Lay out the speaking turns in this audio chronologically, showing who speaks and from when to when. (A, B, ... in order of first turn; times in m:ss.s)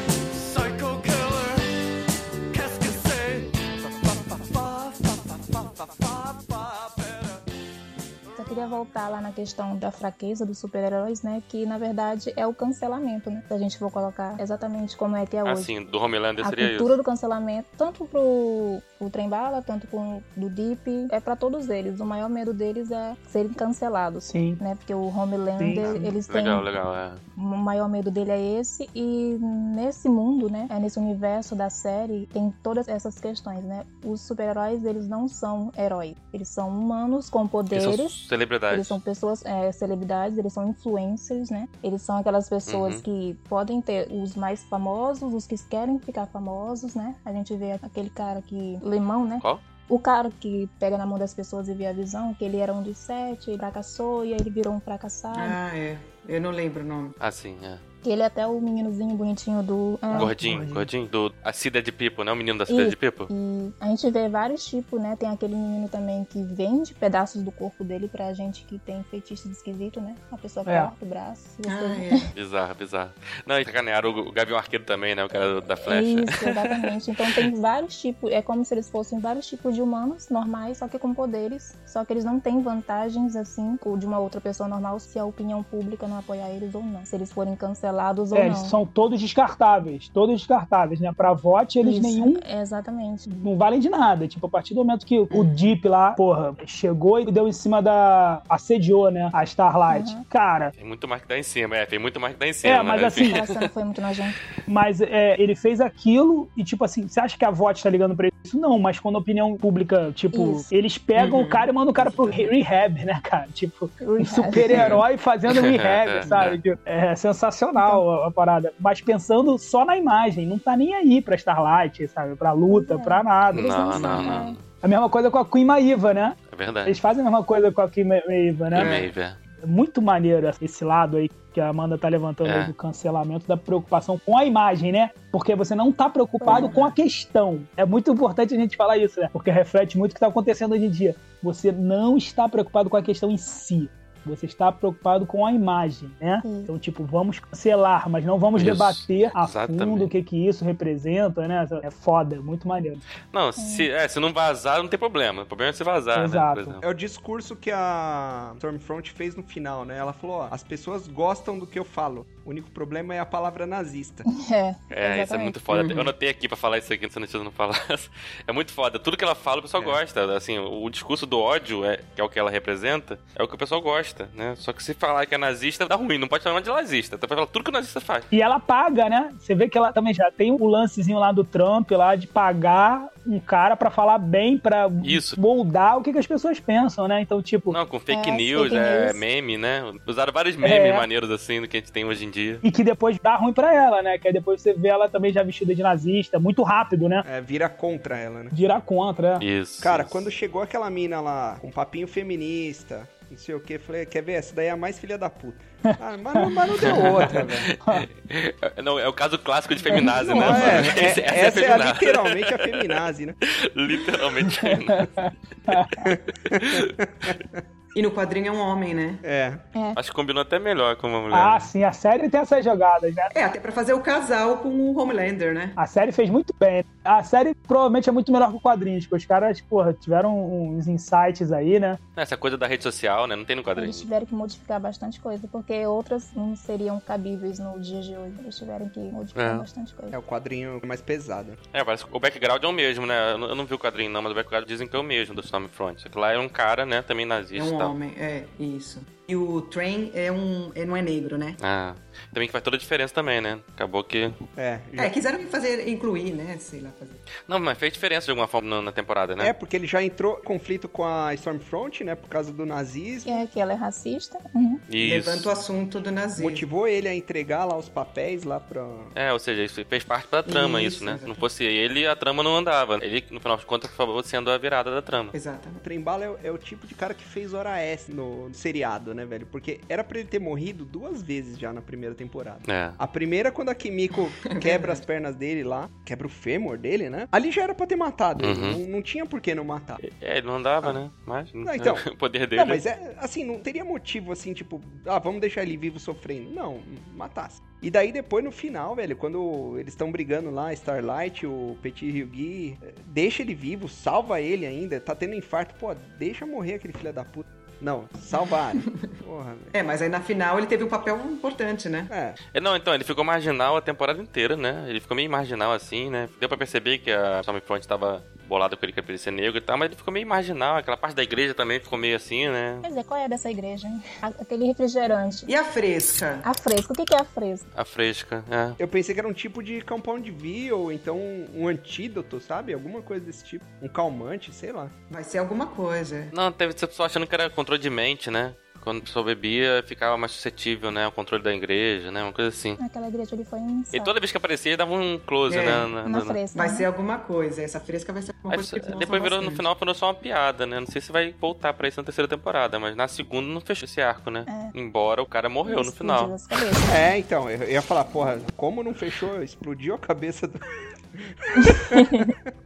0:00.1-0:01.9 A
0:02.5-0:07.4 A
0:08.4-0:15.7 B
0:15.4-0:17.0 C
0:16.4-0:26.7 B
0:24.2-0:24.6 D
0:25.6-0:26.1 D
0:25.8-0:27.2 C
0:27.4-0:55.6 B
0:37.7-0:39.0 C
0:42.7-0:43.0 C
0:55.3-0:57.2 E
0:57.2-0:57.8 C
0:58.0-1:00.3 B
1:00.1-1:00.9 D
1:00.2-1:03.3 C
1:02.7-1:12.3 B
1:10.6-1:10.9 D
1:11.6-1:12.3 E
1:12.4-1:16.7 C
1:15.9-1:28.8 B
1:28.3-1:32.4 D
1:31.8-1:33.2 B
1:33.3-1:40.7 D
1:35.3-1:35.7 E
1:39.9-1:40.2 B
1:40.8-1:43.7 C
1:42.6-1:43.4 D
1:43.2-1:44.4 B
1:44.7-2:08.9 D
1:50.3-1:50.7 B
1:51.2-1:52.5 E
1:54.0-1:54.8 B
1:55.5-1:56.6 C
1:57.8-1:58.0 B
2:02.7-2:04.6 B
2:03.5-2:04.6 C
2:06.5-2:07.0 C
2:08.7-2:09.1 E
2:08.7-2:09.4 C
2:09.6-2:33.0 D
2:12.4-2:12.7 C
2:16.4-2:16.7 B
2:16.4-2:16.9 E
2:26.4-2:26.7 B
2:28.6-2:30.1 C
2:33.3-2:36.8 C
2:33.6-2:33.9 B
2:36.1-2:36.8 D
2:36.8-2:44.3 F
2:44.3-2:45.6 B
2:44.9-2:58.3 C
2:45.7-2:46.1 E
2:58.3-3:07.8 D
3:05.0-3:05.4 C
3:07.7-3:12.6 C
3:08.1-3:09.2 B
3:10.6-3:11.1 D
3:12.6-3:17.2 D
3:17.2-3:18.6 F
3:18.5-3:19.4 D
3:19.4-3:20.2 C
3:19.8-3:27.7 F
3:25.9-3:26.4 D
3:26.8-3:32.8 C
3:27.8-3:28.1 D
3:30.1-3:33.4 F
3:33.5-3:35.1 C
3:34.6-3:36.0 D
3:36.0-3:37.6 F
3:36.5-3:36.9 C
3:37.9-3:39.2 E
3:39.2-3:39.6 F
3:40.0-3:41.7 C
3:41.3-3:43.3 D
3:43.3-3:45.8 E
3:45.8-3:52.0 D
3:52.2-3:54.1 C
3:53.8-4:00.2 B
3:59.4-3:59.6 C
4:00.1-4:01.6 F
4:01.7-4:07.9 C
4:07.6-4:11.6 E
4:11.6-4:14.4 C
4:14.6-4:15.1 F
4:15.0-4:17.2 E
4:17.5-4:19.5 C
4:19.4-4:23.4 F
4:23.3-4:24.8 B
4:24.9-4:25.5 C
4:25.0-4:26.6 E
4:26.4-4:29.1 F
4:29.2-4:35.3 C
4:30.5-4:31.4 E
4:35.3-4:35.8 E
4:35.8-4:50.0 F
4:42.7-4:43.0 C
4:44.5-4:45.0 E
4:48.4-4:48.8 C
4:50.0-4:52.8 C
4:51.6-5:09.7 F
5:09.7-5:12.1 E
5:12.1-5:12.4 F
5:12.5-5:22.8 C
5:22.8-5:25.5 B
5:25.5-5:26.4 E
5:26.4-5:27.7 B
5:27.8-5:28.8 C
5:28.8-5:34.9 F
5:35.1-5:36.3 E
5:36.3-5:42.8 C
5:42.8-5:44.1 B
5:43.9-5:46.4 C
5:45.5-5:45.9 E
5:46.0-5:46.9 B
5:46.5-5:49.6 E
5:48.5-5:56.3 C
5:54.5-5:54.7 B
5:55.6-5:57.0 B
5:56.9-6:00.6 F
6:01.2-6:02.1 F
6:01.7-6:02.3 B